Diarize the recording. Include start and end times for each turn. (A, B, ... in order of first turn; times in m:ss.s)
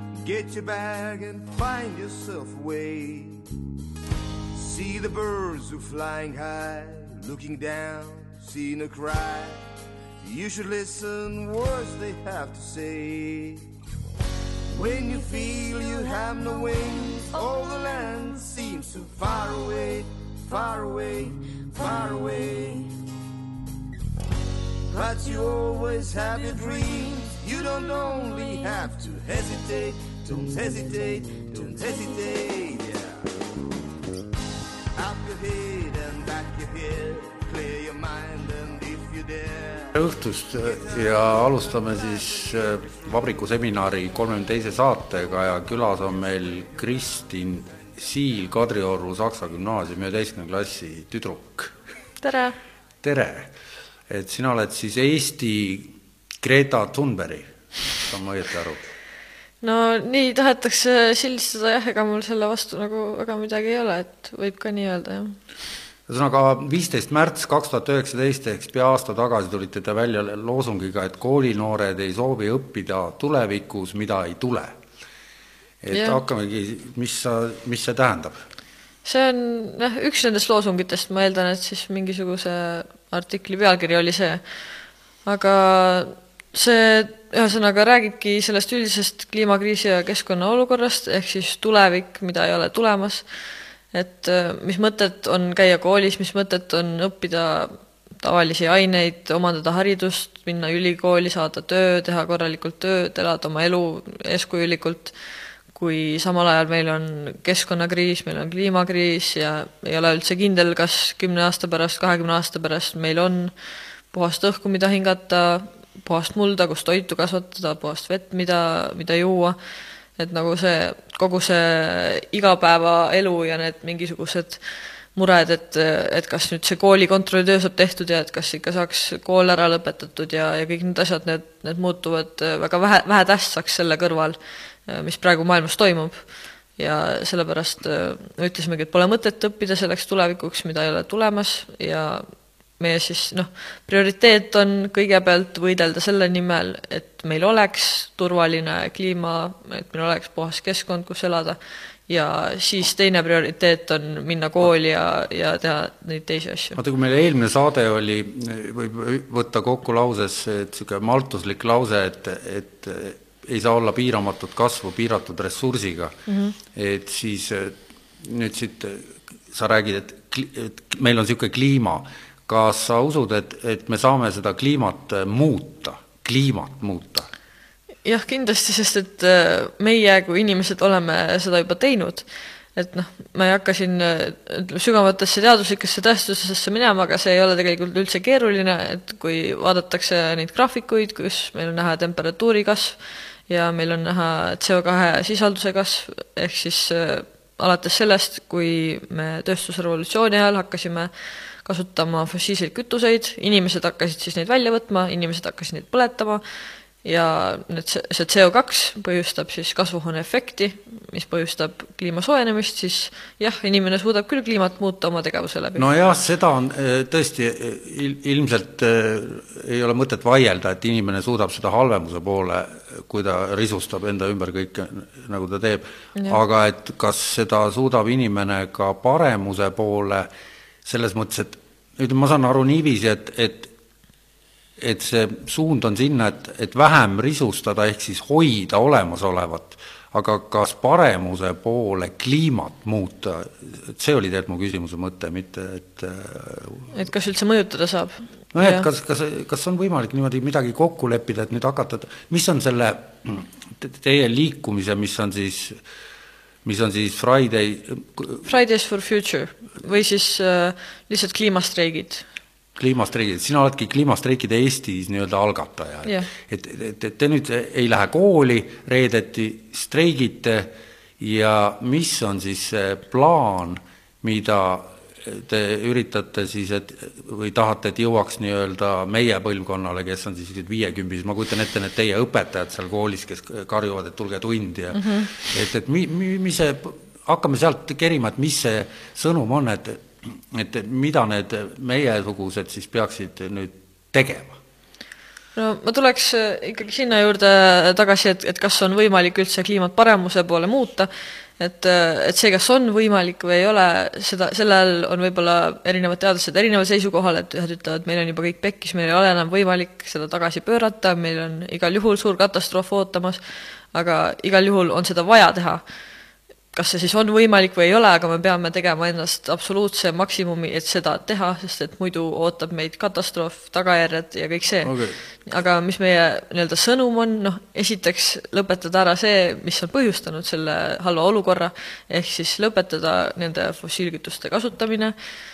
0:00.2-0:03.4 A
0:04.5-0:09.6 A
0:10.2-0:13.7 A
0:14.7-0:22.9 A
0:24.9-0:33.3 A
0:34.9-0:39.9 A
0:39.9-0:51.7 B
0:40.6-0:41.6 A
0:42.5-0:43.0 A
0:52.2-0:52.6 C
0:53.0-0:53.5 B
0:54.1-0:58.8 B
0:59.6-1:05.4 C
1:06.1-1:14.8 B
1:15.8-1:18.4 B
1:15.9-1:16.2 C
1:19.0-1:24.4 C
1:25.2-1:33.2 C
1:33.9-1:45.1 C
1:45.7-1:53.5 C
1:54.1-1:59.6 C
2:00.2-2:04.6 C
2:05.1-2:16.2 C
2:16.8-2:22.2 C
2:22.8-2:31.6 C
2:32.1-2:36.8 C
2:36.8-2:46.1 B
2:46.3-2:46.6 C
2:46.7-2:57.3 B
2:58.0-3:02.2 C
3:02.8-3:13.0 C
3:13.5-3:21.1 C
3:21.6-3:26.4 C
3:27.0-3:35.8 C
3:35.8-3:50.3 B
3:50.8-3:53.7 B
3:54.8-4:06.9 B
4:06.9-4:08.8 C
4:08.5-4:15.8 B
4:16.6-4:18.5 B
4:18.4-4:22.2 C
4:22.8-4:54.6 B
4:44.9-4:45.3 C
4:55.6-5:13.4 C
5:13.9-5:15.8 C
5:16.7-5:24.9 C
5:24.8-5:25.2 B
5:25.4-5:35.1 C